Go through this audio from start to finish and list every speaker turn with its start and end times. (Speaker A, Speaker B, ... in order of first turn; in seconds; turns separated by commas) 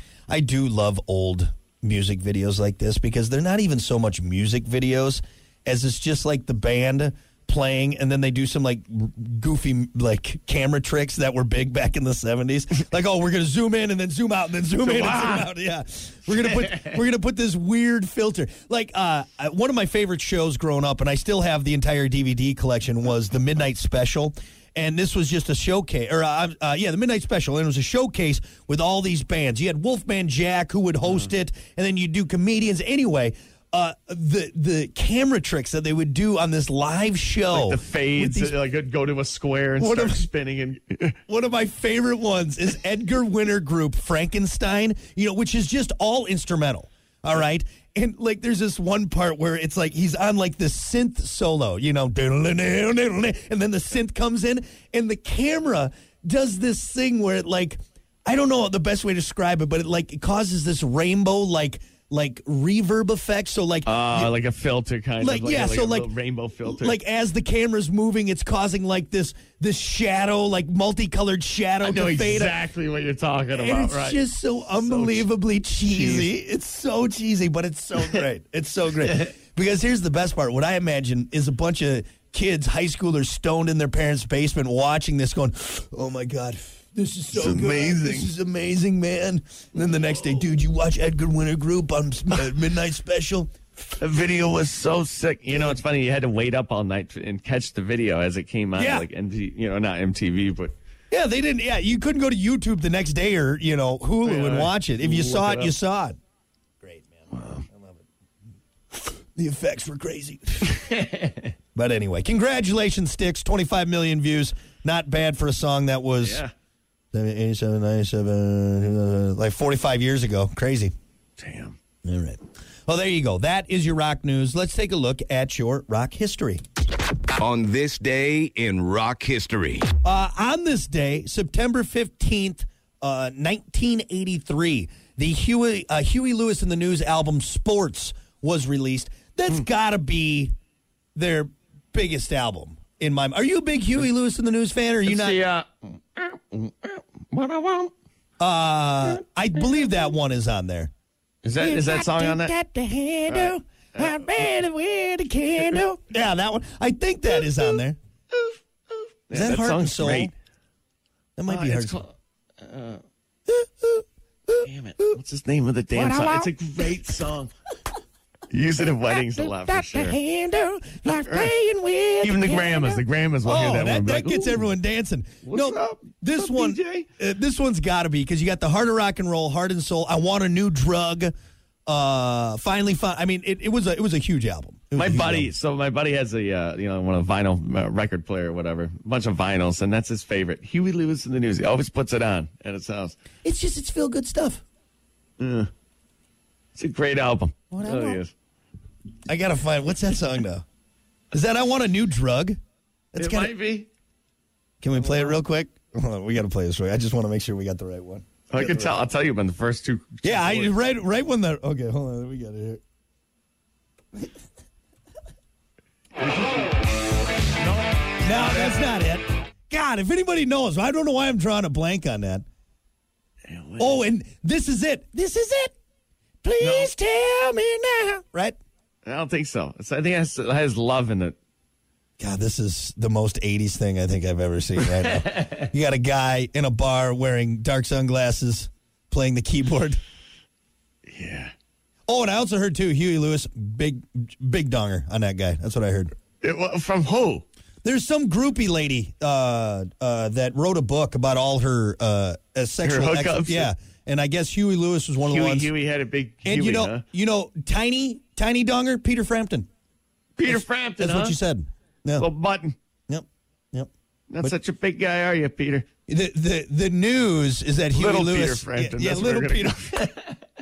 Speaker A: 0.3-38.5, Speaker B: 14.8-15.5, Speaker B: 37.5-41.2, Speaker A: 39.8-40.2, Speaker A: 41.3-64.3, Speaker B: 63.9-67.0, Speaker A: 65.2-66.1, Speaker A: 66.7-72.6, Speaker B: 71.8-75.3, Speaker A: 73.5-93.5, Speaker B: 75.8-76.3, Speaker B: 87.3-88.3, Speaker B: 94.0-100.7, Speaker A: 95.5-95.8, Speaker A: 98.8-99.1, Speaker A: 101.1-106.2, Speaker B: 104.2-105.7, Speaker A: 106.8-108.0, Speaker B: 107.3-107.6, Speaker A: 109.3-111.0, Speaker B: 110.9-111.3, Speaker A: 111.8-116.4, Speaker B: 116.2-116.5, Speaker A: 117.1-120.9, Speaker B: 121.4-121.8, Speaker A: 122.0-126.6, Speaker C: 127.4-129.9, Speaker A: 130.0-140.5, Speaker A: 141.2-145.4, Speaker B: 145.0-147.9, Speaker A: 148.4-150.9, Speaker B: 151.4-152.5, Speaker A: 151.6-158.0, Speaker B: 153.3-154.5, Speaker B: 158.3-160.3, Speaker A: 159.3-160.3, Speaker A: 161.4-162.0, Speaker B: 161.5-163.0, Speaker A: 163.5-165.2, Speaker B: 164.6-167.5, Speaker A: 165.9-166.9, Speaker B: 168.5-170.2, Speaker A: 169.1-181.3, Speaker B: 171.3-171.5, Speaker B: 172.2-174.7, Speaker B: 175.4-177.1, Speaker A: 181.9-185.5, Speaker B: 184.9-193.2, Speaker A: 193.4-194.6, Speaker B: 195.4-195.7, Speaker B: 196.8-198.3, Speaker A: 197.7-198.2, Speaker A: 199.2-200.6, Speaker A: 201.3-202.6, Speaker A: 203.1-203.5, Speaker B: 203.2-203.9, Speaker A: 204.8-209.0, Speaker B: 204.9-205.4, Speaker B: 208.5-210.8, Speaker A: 210.2-212.8, Speaker B: 217.6-218.9, Speaker A: 218.2-222.4, Speaker B: 223.5-224.1, Speaker A: 223.8-225.8, Speaker A: 226.4-228.6, Speaker B: 226.6-226.9, Speaker B: 229.0-231.4, Speaker A: 232.2-240.0, Speaker B: 241.1-241.5, Speaker A: 242.1-246.1, Speaker B: 246.4-247.4, Speaker A: 247.8-255.7, Speaker B: 252.8-253.7, Speaker B: 255.2-257.0, Speaker A: 256.4-259.7, Speaker B: 260.4-261.4, Speaker A: 260.4-262.3, Speaker B: 262.2-262.8, Speaker A: 263.1-263.9, Speaker B: 264.3-265.9, Speaker A: 266.1-270.1, Speaker B: 267.9-270.3